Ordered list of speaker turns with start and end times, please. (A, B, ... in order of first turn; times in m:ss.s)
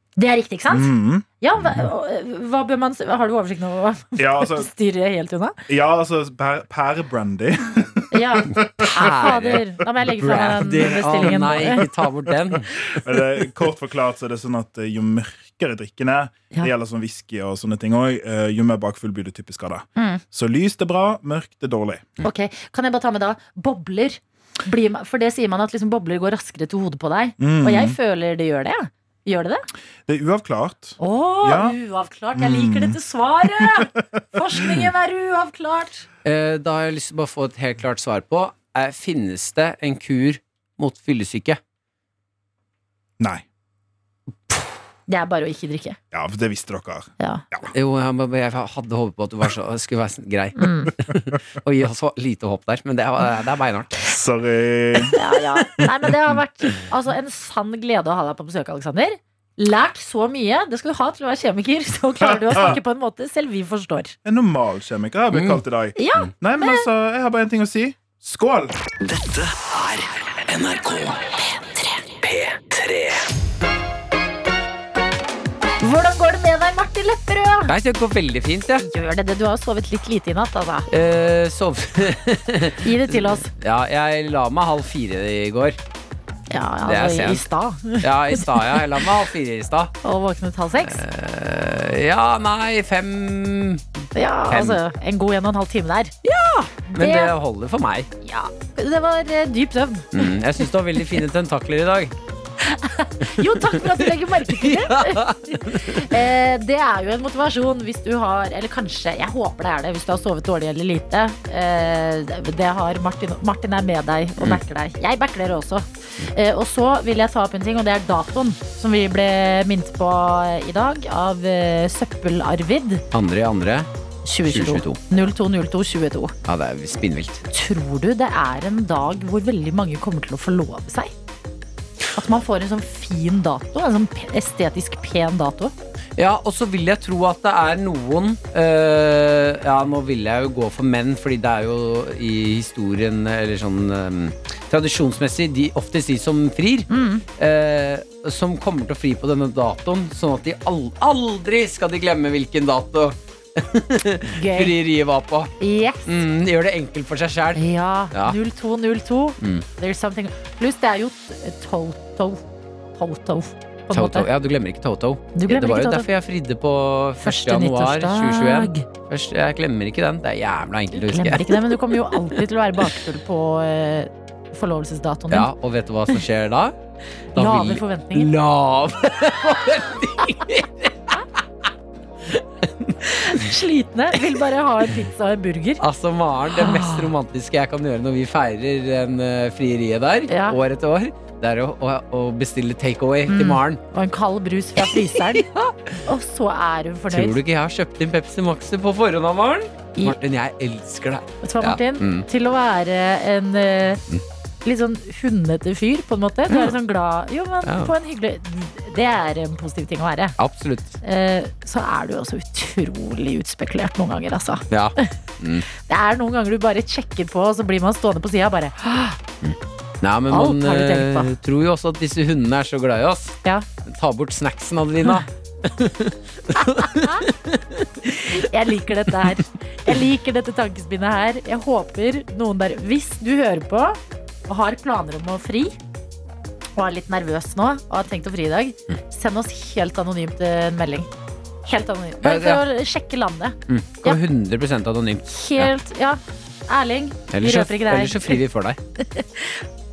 0:00.2-0:05.6 A
0:00.7-0:01.2 B
0:04.2-0:04.7 B
0:05.7-0:08.0 B
0:08.1-0:11.9 A
0:08.6-0:09.1 B
0:08.8-0:09.6 C
0:10.2-0:12.7 C
0:12.9-0:22.1 B
0:20.0-0:20.2 A
0:22.2-0:29.7 A
0:27.4-0:28.0 B
0:30.1-0:31.8 B
0:31.0-0:36.1 A
0:32.4-0:33.0 B
0:33.6-0:33.9 B
0:36.2-0:41.6 C
0:45.1-0:46.0 A
0:46.1-0:47.7 B
0:47.7-0:54.0 C
0:50.6-0:50.9 A
0:54.0-0:55.2 B
0:55.1-1:04.2 A
1:02.2-1:02.8 B
1:04.2-1:08.8 B
1:05.3-1:05.6 C
1:06.0-1:06.9 A
1:09.0-1:11.3 D
1:11.7-1:12.0 A
1:12.2-1:13.3 D
1:15.8-1:17.7 A
1:17.7-1:18.8 C
1:18.8-1:20.9 A
1:20.9-1:25.8 C
1:22.8-1:23.5 A
1:26.5-1:29.1 A
1:26.8-1:27.4 C
1:28.0-1:29.9 C
1:30.0-1:31.0 A
1:30.8-1:34.8 C
1:34.2-1:37.3 A
1:37.0-1:38.1 C
1:38.2-1:40.3 A
1:40.1-1:42.1 C
1:42.6-2:03.0 A
1:43.4-1:46.1 C
2:03.1-2:03.9 C
2:04.2-2:06.3 A
2:04.5-2:05.0 C
2:06.5-2:07.4 C
2:07.5-2:11.1 A
2:12.2-2:15.7 A
2:16.2-2:35.5 C
2:26.9-2:27.2 A
2:34.3-2:34.7 A
2:35.6-2:36.1 A
2:36.1-2:38.4 C
2:37.6-2:42.4 A
2:39.4-2:39.7 C
2:43.0-2:44.3 A
2:43.9-2:52.4 C
2:45.4-2:46.1 A
2:47.2-2:48.8 A
2:51.0-2:55.5 A
2:55.3-2:56.7 C
2:57.4-2:58.3 A
2:57.4-3:01.2 C
3:02.3-3:02.7 C
3:03.0-3:05.8 A
3:05.8-3:13.8 C
3:06.5-3:07.1 A
3:10.3-3:10.6 A
3:13.3-3:15.5 A
3:15.0-3:15.7 C
3:16.0-3:17.4 A
3:17.1-3:22.3 C
3:21.4-3:24.0 A
3:24.6-3:30.4 A
3:27.6-3:27.9 C
3:30.4-3:31.0 C
3:31.0-3:35.1 A
3:34.7-3:35.7 C
3:35.7-3:39.2 A
3:39.4-3:48.1 C
3:40.3-3:41.3 A
3:46.6-3:47.2 A
3:48.3-3:55.8 A
3:56.8-4:01.1 A
4:01.6-4:04.2 A
4:02.2-4:02.6 C
4:03.7-4:05.7 C
4:05.3-4:08.4 A
4:07.3-4:08.8 C
4:09.0-4:09.6 A